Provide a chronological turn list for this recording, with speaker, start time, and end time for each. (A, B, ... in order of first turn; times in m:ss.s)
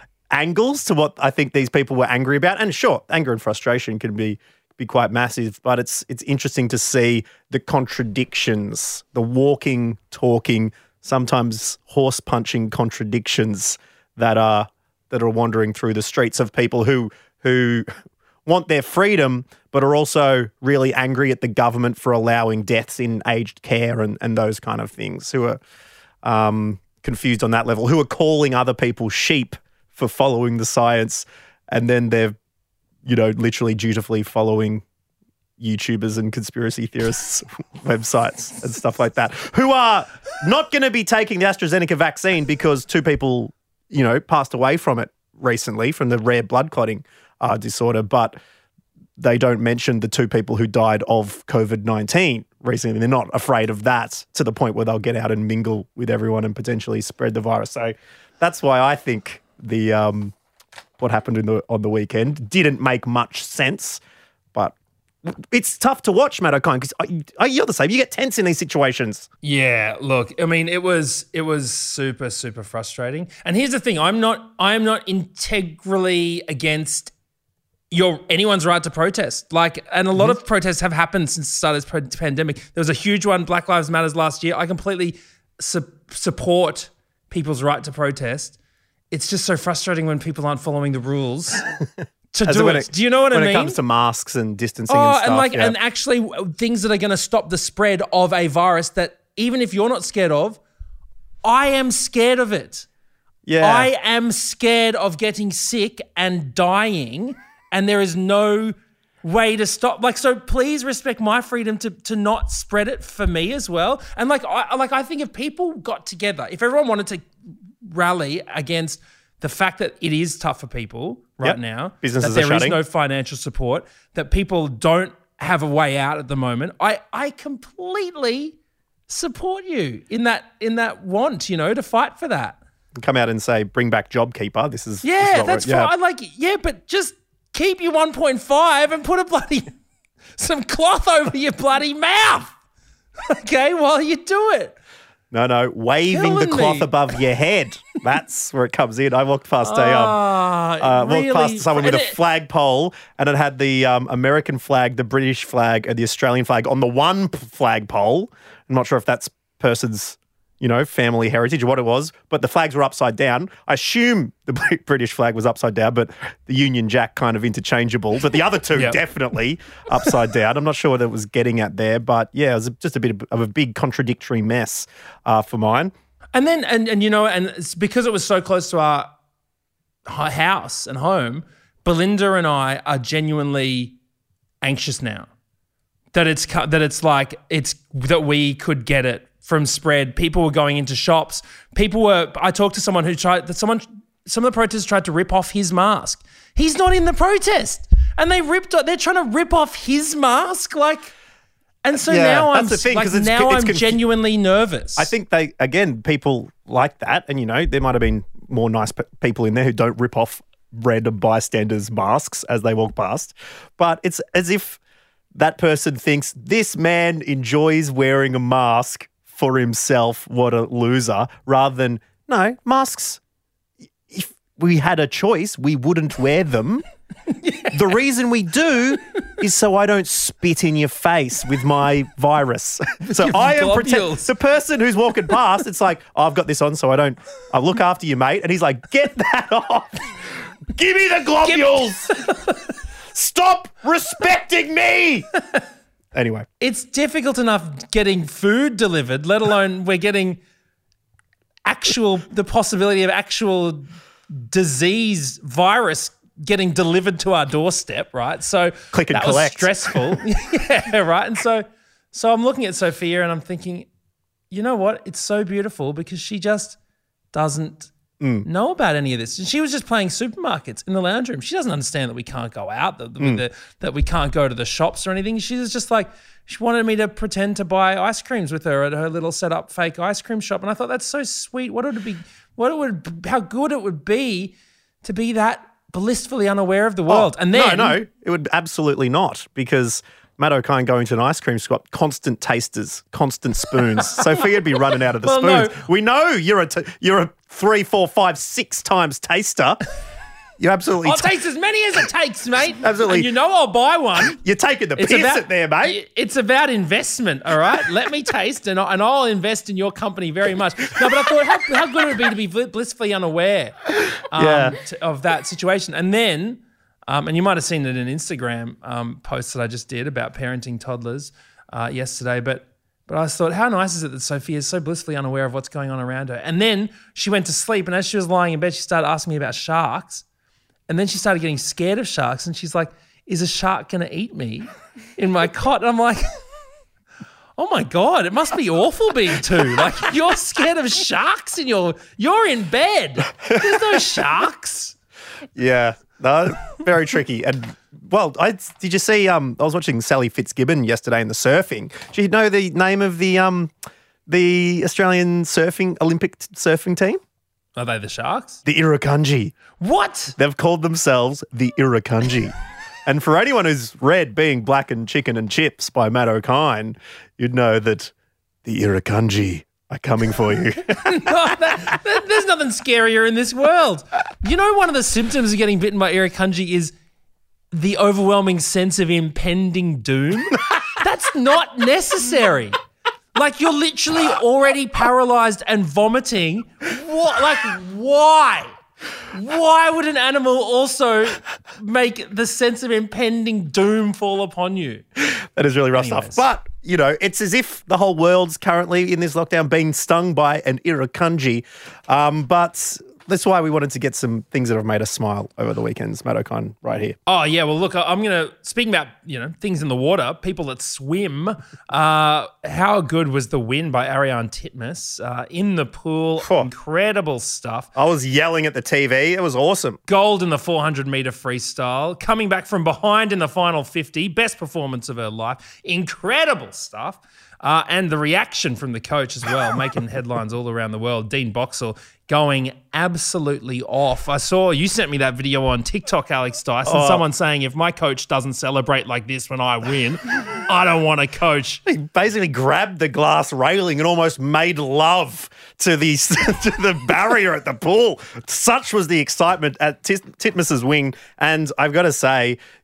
0:00.3-0:17.9 A
0:18.5-0:25.6 A
0:26.2-0:32.4 A
0:33.0-0:34.8 A
0:35.6-0:48.4 A
0:49.2-1:00.4 A
1:01.0-1:04.0 A
1:04.6-1:09.3 A
1:09.4-1:17.1 B
1:17.9-1:28.6 B
1:29.1-1:31.7 B
1:32.3-1:33.8 B
1:32.4-1:35.8 A
1:34.9-1:40.6 B
1:41.4-1:42.9 B
1:43.5-1:43.9 A
1:43.6-1:57.3 B
1:57.8-2:08.6 B
2:01.4-2:02.8 A
2:09.1-2:12.6 B
2:13.0-2:15.9 A
2:15.0-2:19.7 B
2:20.4-2:22.5 B
2:23.3-2:24.8 B
2:25.3-2:30.2 A
2:26.1-2:27.1 B
2:29.6-2:32.2 B
2:30.8-2:55.9 A
2:48.7-2:49.0 B
2:56.3-2:59.1 B
3:00.1-3:04.0 B
3:04.6-3:05.3 B
3:06.1-3:21.1 B
3:21.8-3:25.1 B
3:21.9-3:24.0 A
3:25.0-3:34.8 A
3:35.3-3:43.2 A
3:44.1-3:46.8 A
3:47.3-3:47.8 B
3:47.7-4:02.2 A
3:53.1-3:54.3 B
4:01.4-4:02.6 B
4:03.1-4:05.3 A
4:06.1-4:06.5 A
4:06.6-4:10.4 B
4:11.6-4:23.9 B
4:18.9-4:20.2 A
4:24.5-4:26.8 B
4:27.3-4:27.9 B
4:28.2-4:28.5 A
4:28.4-4:48.0 B
4:47.1-4:59.8 A
4:55.2-4:55.8 B
5:00.6-5:01.3 A
5:01.0-5:04.4 B
5:02.8-5:03.3 A
5:04.3-5:06.0 A
5:05.0-5:30.2 B
5:14.3-5:14.8 A
5:30.9-5:36.3 B
5:37.6-5:45.0 B
5:43.5-5:44.0 A
5:45.6-5:53.7 A
5:54.3-5:57.2 A
5:57.8-5:58.6 B
5:58.6-5:59.6 A
5:59.8-6:00.4 B
6:00.4-6:02.5 A
6:03.1-6:08.1 A
6:08.6-6:11.3 A
6:11.0-6:16.9 B
6:17.7-6:22.8 B
6:23.4-6:28.7 B
6:29.3-6:35.0 B
6:35.3-6:47.2 A
6:35.9-6:36.4 B
6:47.3-6:57.9 B
6:56.4-6:56.7 A
6:58.0-7:00.0 A
7:00.1-7:21.8 B
7:16.8-7:17.2 A
7:21.9-7:32.6 A